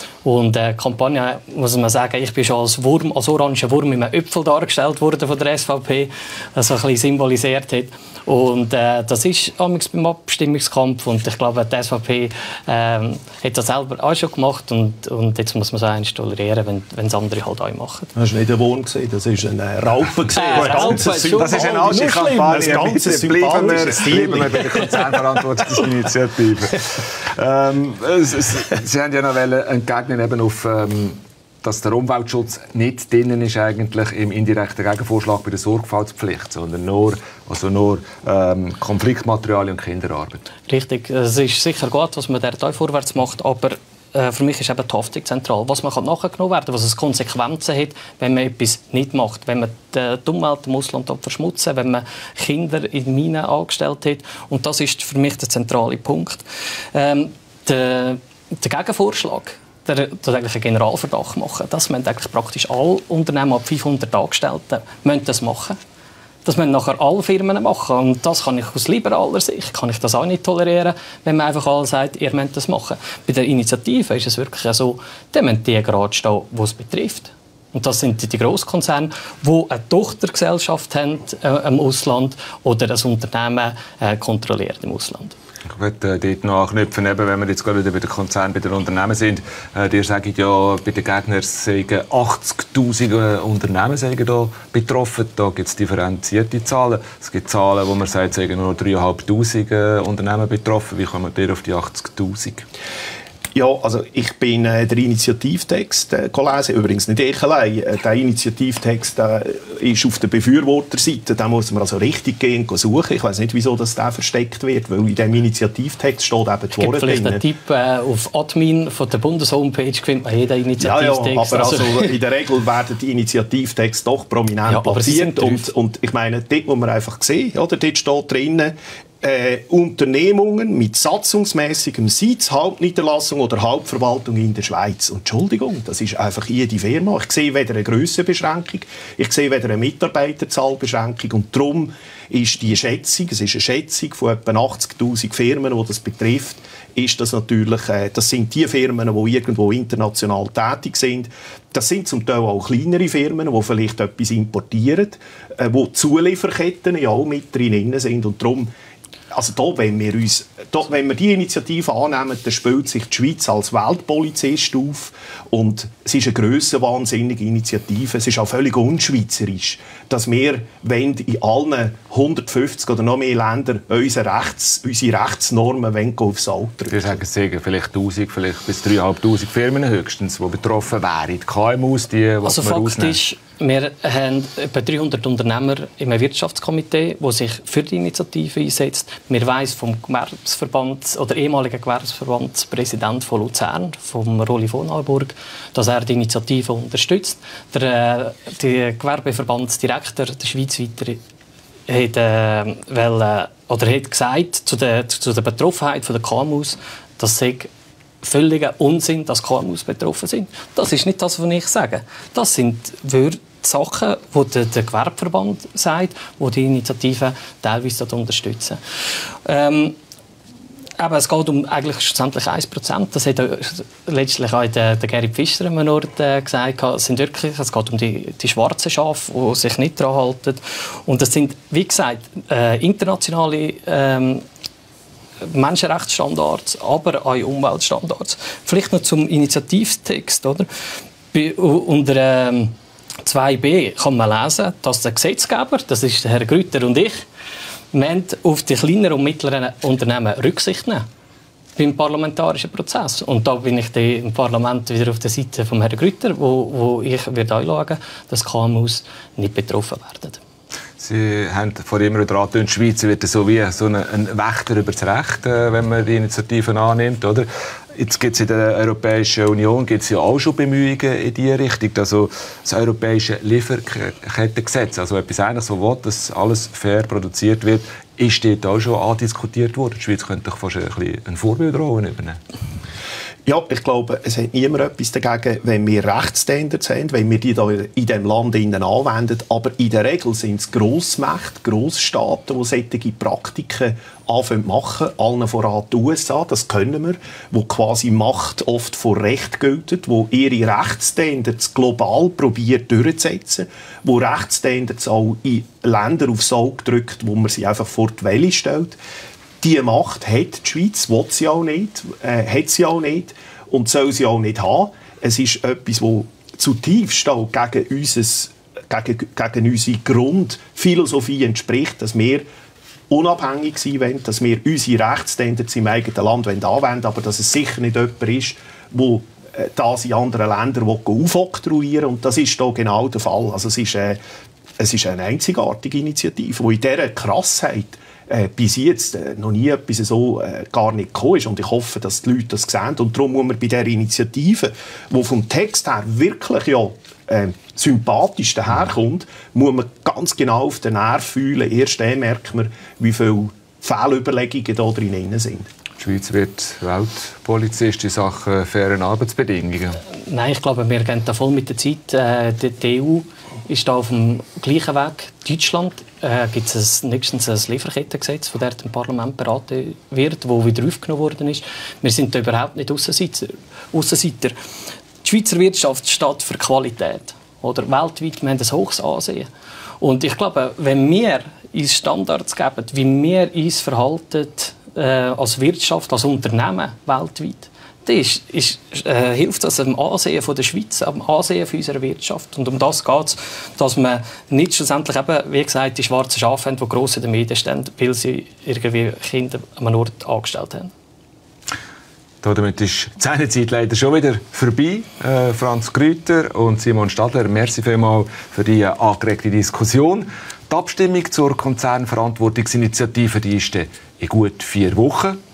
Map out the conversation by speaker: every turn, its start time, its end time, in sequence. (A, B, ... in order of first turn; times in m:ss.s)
0:00.2-0:18.1 A
0:18.1-0:25.4 B
0:20.3-0:22.5 A
0:20.5-0:40.4 C
0:40.7-1:05.8 A
1:06.4-1:25.4 A
1:25.7-1:42.6 C
1:43.5-1:57.4 B
1:56.8-2:02.1 A
2:00.8-2:38.7 B
2:04.7-2:05.7 A
2:39.3-2:57.2 B
2:56.9-3:03.2 C
3:02.4-3:21.2 A
3:21.9-3:27.7 A
3:28.2-3:38.8 A
3:39.4-3:40.0 A
3:41.0-3:54.4 A
3:55.5-4:00.7 A
4:01.3-4:02.7 A
4:03.2-4:07.2 A
4:07.9-4:11.0 A
4:11.8-4:20.4 A
4:21.0-4:42.4 C
4:43.4-5:09.0 B
5:09.6-5:22.4 B
5:23.1-5:34.2 B
5:34.8-5:55.7 B
5:56.0-6:00.0 C
6:00.2-6:14.6 A
6:15.2-6:19.5 A
6:20.0-6:40.9 A
6:42.4-6:55.4 C